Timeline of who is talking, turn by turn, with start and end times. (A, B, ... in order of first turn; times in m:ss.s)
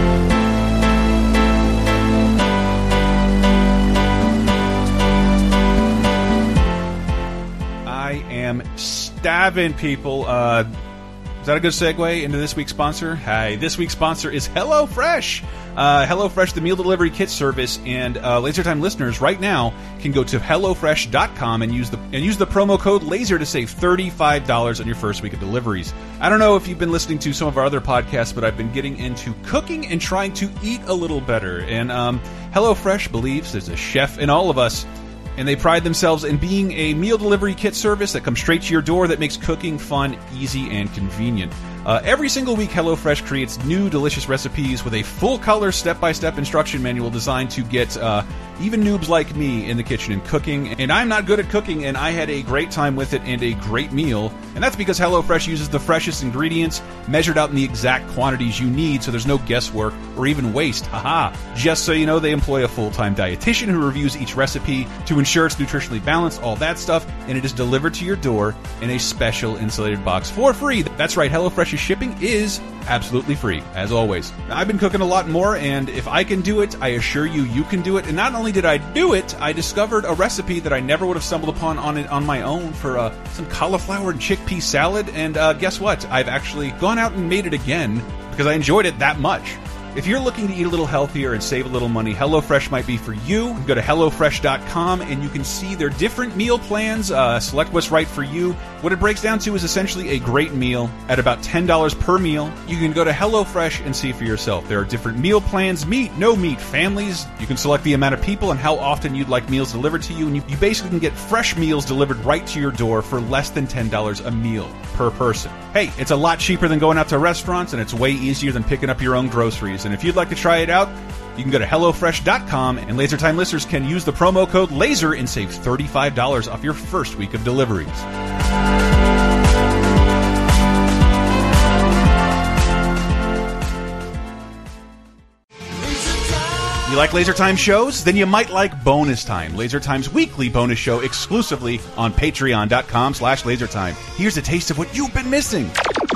0:07.8-0:10.7 A
0:11.4-2:08.1 A
2:16.8-2:25.8 A